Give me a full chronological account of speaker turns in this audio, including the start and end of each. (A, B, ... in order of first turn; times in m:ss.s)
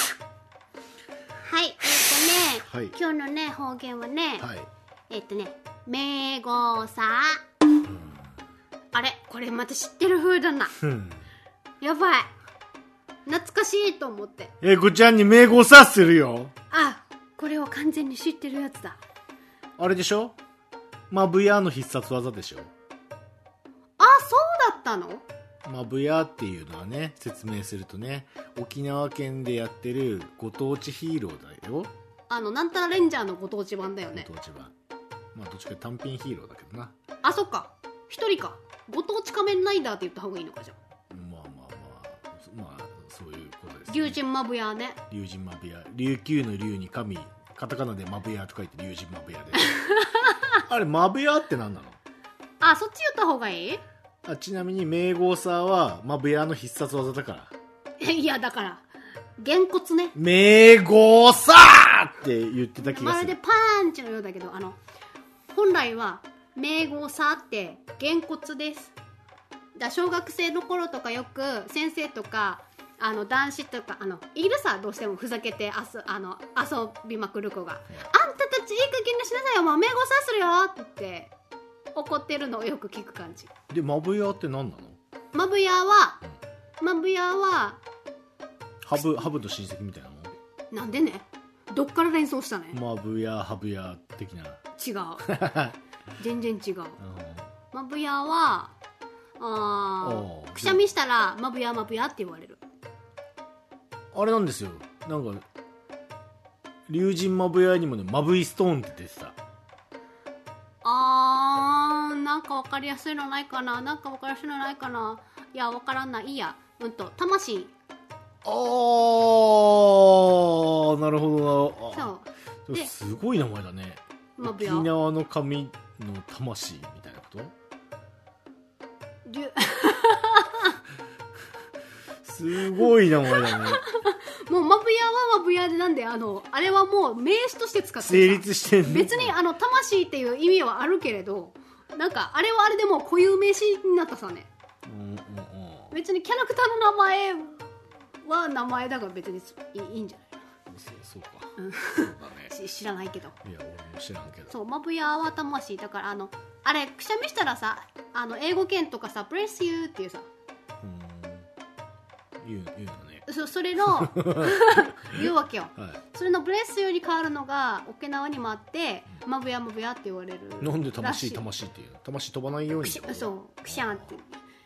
0:01.4-0:04.5 A
0:02.6-0:02.9 B
0:04.4-0:04.7 B
0:05.1-0:07.4 A
0:07.9-0:08.2 B
0:08.9-0:10.8 A
0:10.8-0:11.2 B
0:11.8-0:12.3 A
0:13.2-0:14.5 A
0:14.6-0:16.5 B
0:16.7-0:19.0 A
0:19.8-0:20.4 B
0:21.1-0:22.7 B
0:24.0-0:25.2 A
0:25.6-0:31.9 B
0:32.3-0:34.3 A
0:34.1-0:34.7 B
0:35.3-0:36.9 B
0:37.2-0:40.8 A
0:41.1-0:44.2 B
0:43.9-0:45.0 A
0:45.1-0:49.7 B
0:49.6-0:50.6 A
0:50.6-0:52.0 B
0:52.6-0:53.8 A
0:54.2-0:57.5 B
0:58.0-0:58.8 A
0:59.4-1:00.1 A
1:00.1-1:03.4 B
1:02.8-1:04.8 A
1:05.5-1:08.9 A
1:09.7-1:21.3 A
1:21.9-1:23.5 A
1:23.7-1:25.0 B
1:25.3-1:26.2 A
1:26.8-1:27.8 A
1:28.8-1:30.3 B
1:30.7-1:32.8 A
1:32.7-1:34.6 B
1:34.8-1:35.4 A
1:35.2-1:35.8 B
1:36.2-1:37.0 A
1:37.0-1:37.5 B
1:37.7-1:38.7 A
1:39.4-1:42.6 A
1:40.0-1:40.8 B
1:44.1-1:45.4 B
1:46.9-1:49.3 B
1:50.8-1:57.7 A
1:58.4-2:02.1 B
2:01.9-2:02.9 A
2:02.7-2:07.5 B
2:04.4-2:04.9 A
2:09.2-2:10.8 A
2:12.2-2:13.8 B
2:12.7-2:24.5 A
2:18.0-2:19.3 B
2:24.8-2:26.0 B
2:25.9-2:27.7 A
2:28.2-2:30.4 A
2:30.7-2:32.5 B
2:31.6-2:33.4 A
2:33.4-2:34.6 B
2:34.5-2:40.3 A
2:40.8-2:41.5 B
2:42.4-2:43.2 B
2:43.2-2:51.4 A
2:44.0-2:45.2 B
2:50.6-2:54.1 B
2:52.8-2:54.4 A